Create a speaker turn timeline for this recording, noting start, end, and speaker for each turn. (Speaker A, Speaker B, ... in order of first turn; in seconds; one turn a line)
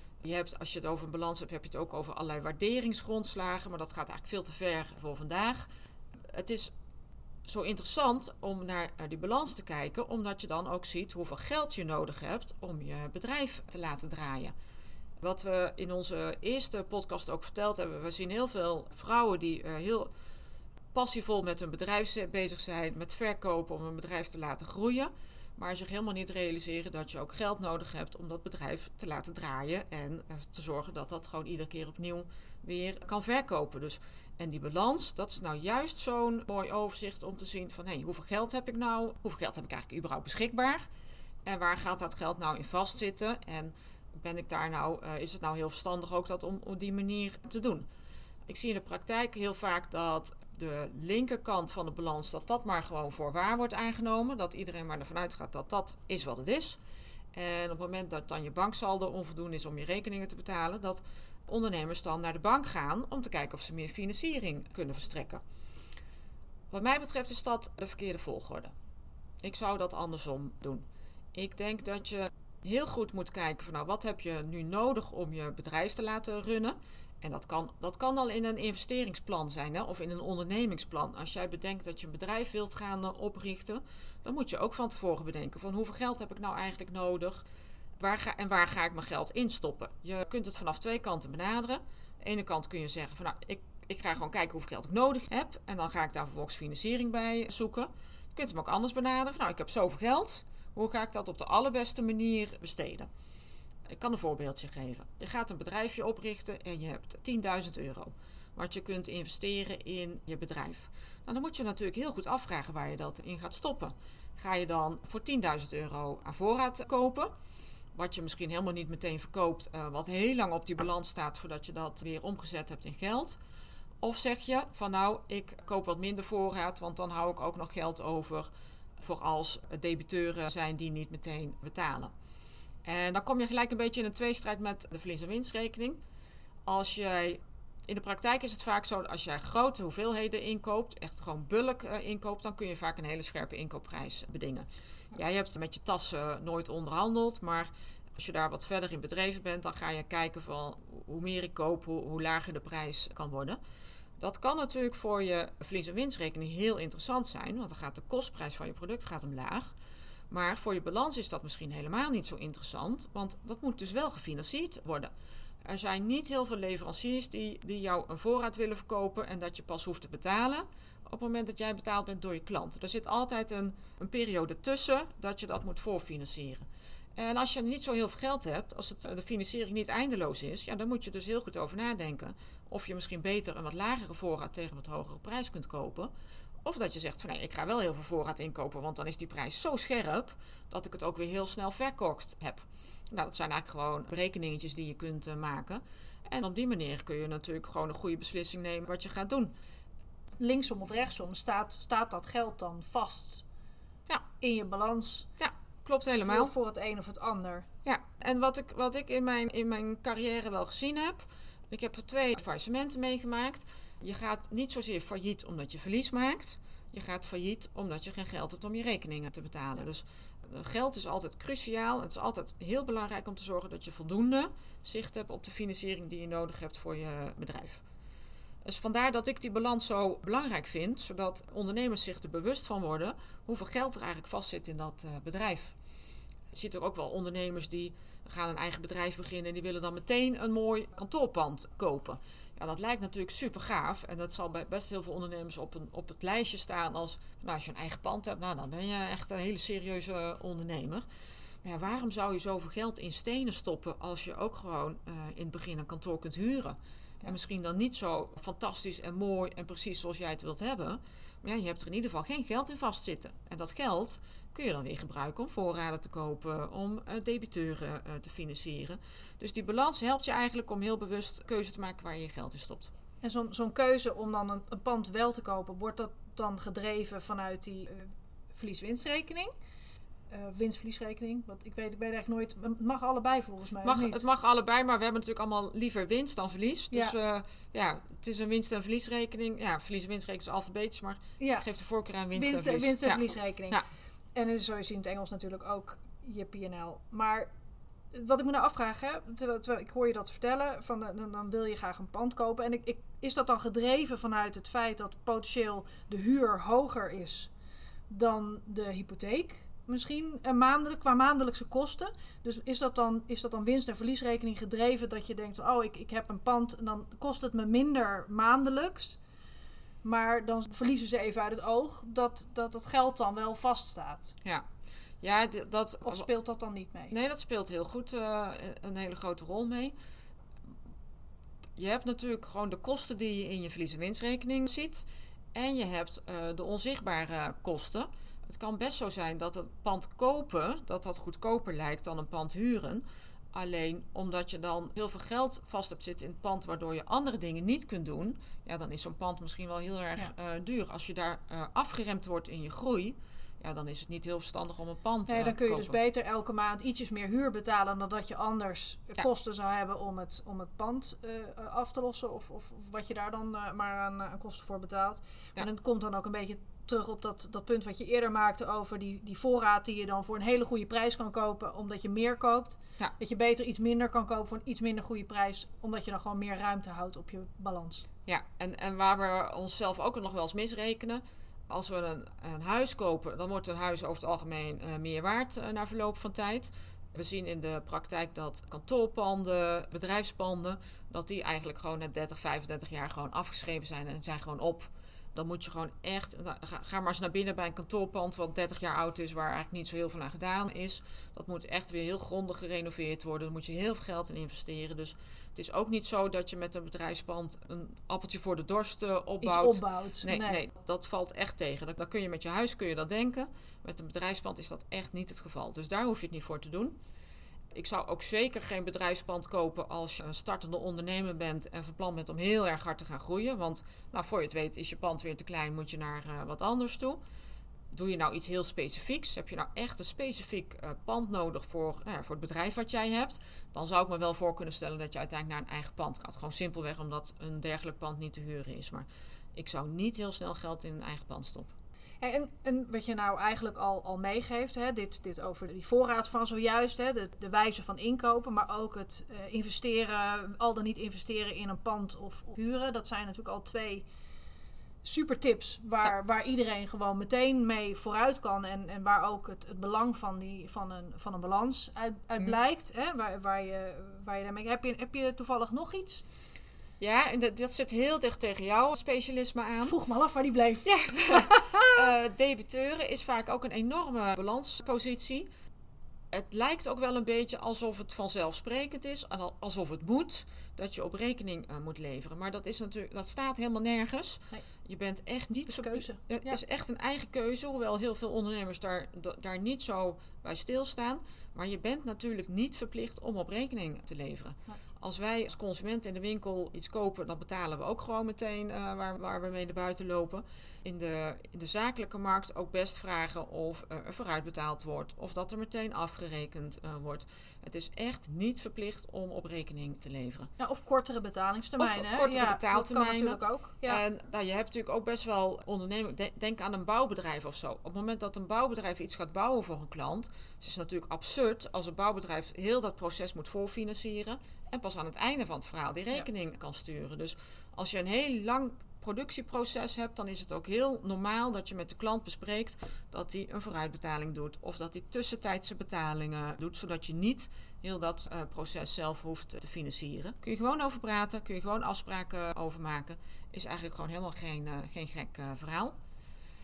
Speaker A: 0.2-5.7
Speaker A: 6.3-6.7
Speaker A: 7.5-14.5
Speaker A: 15.2-20.1
Speaker A: 20.9-40.8
Speaker A: 41.4-47.9
Speaker A: 48.5-56.8
Speaker A: 57.3-65.4
Speaker A: 66.7-68.7
Speaker A: 69.4-87.4
Speaker A: 88.0-103.1
Speaker A: 103.9-117.3
Speaker A: 117.9-123.4
Speaker A: 124.0-132.1
Speaker A: 132.8-136.0
Speaker A: 136.7-153.6
Speaker A: 154.2-159.7
Speaker A: 160.3-165.1
Speaker A: 165.6-176.7
Speaker A: 177.2-186.1
Speaker A: 186.6-199.5
Speaker B: 200.4-203.4
Speaker B: 204.4-205.3
Speaker A: 205.4-206.5
Speaker B: 206.2-207.7
Speaker A: 207.8-227.8
Speaker A: 228.6-235.8
Speaker A: 236.5-251.0
Speaker A: 251.6-272.9
Speaker B: 273.2-279.5
Speaker B: 280.3-284.2
Speaker A: 283.8-293.8
Speaker B: 291.4-291.6
Speaker B: 292.3-293.8
Speaker B: 294.3-297.5
Speaker B: 298.1-307.5
Speaker B: 308.1-319.2
Speaker B: 320.0-324.3
Speaker A: 325.2-326.3
Speaker B: 326.0-327.1
Speaker A: 327.1-329.9
Speaker A: 331.8-355.9
Speaker B: 355.3-378.0
Speaker A: 378.3-416.9
Speaker B: 409.4-410.6
Speaker A: 417.7-427.2
Speaker A: 427.9-441.7
Speaker B: 442.2-454.1
Speaker B: 455.0-466.2
Speaker A: 467.0-469.9
Speaker B: 469.8-471.9
Speaker A: 470.8-475.5
Speaker A: 476.3-510.5
Speaker B: 485.7-486.6
Speaker B: 510.6-514.0
Speaker A: 511.8-545.9